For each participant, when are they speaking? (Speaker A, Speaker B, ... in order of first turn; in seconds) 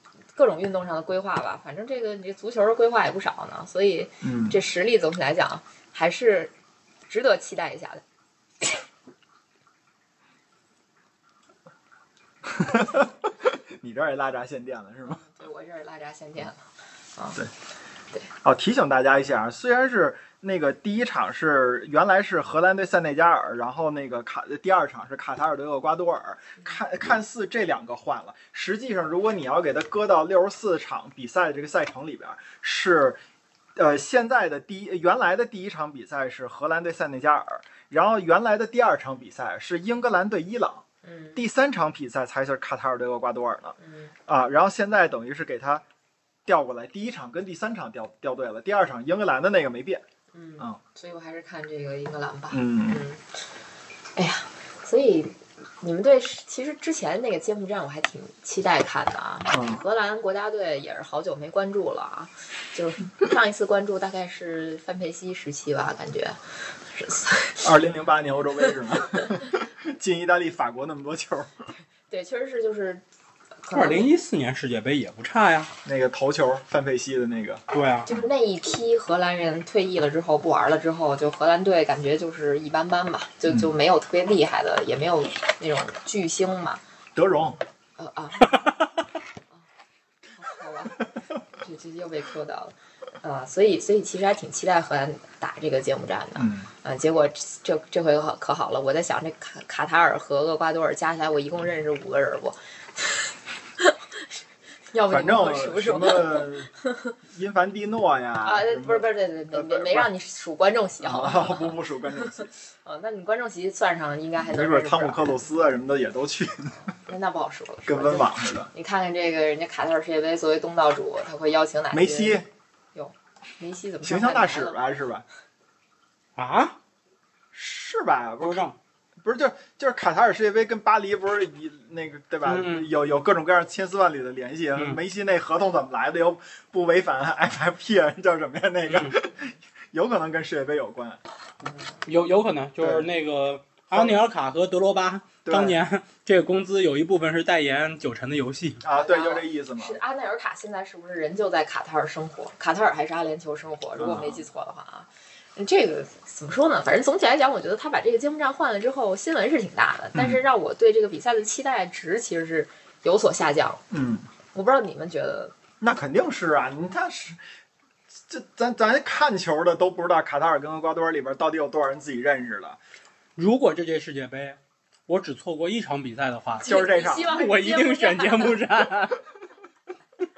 Speaker A: 0.3-6.5, 7.1-8.0, 15.1-16.6, 17.2-17.4, 41.0-41.4, 43.8-44.1, 50.3-53.2, 54.2-67.7, 72.1-73.0, 73.6-74.1, 78.1-86.8, 88.0-88.5, 90.4-104.4, 104.9-107.1, 108.4-115.4, 116.8-122.4, 123.0-124.8, 148.9-163.8, 164.5-165.5, 176.6-178.6
Speaker B: 4.2-4.6, 12.5-15.2, 18.4-33.2, 33.8-40.8, 41.4-43.8, 44.3-45.8, 46.5-50.0, 52.5-53.0, 59.5-59.8, 67.6-71.6, 75.8-78.2, 87.2-87.6, 96.4-96.7, 105.1-106.7, 107.3-110.1, 111.0-112.5, 114.4-116.8, 117.9-118.7, 121.9-122.5, 124.0-125.2, 127.5-128.7, 129.2-141.2, 142.8-143.1, 143.9-144.2, 145.5-145.8, 148.8-150.0, 154.0-154.4, 160.1-160.4, 163.9-164.3, 165.8-167.4, 168.1-172.8, 176.6-177.4
Speaker C: 73.7-75.7, 77.7-78.1, 126.4-126.8, 128.4-128.8, 132.4-132.9, 138.9-139.2, 142.1-148.8, 173.4-179.2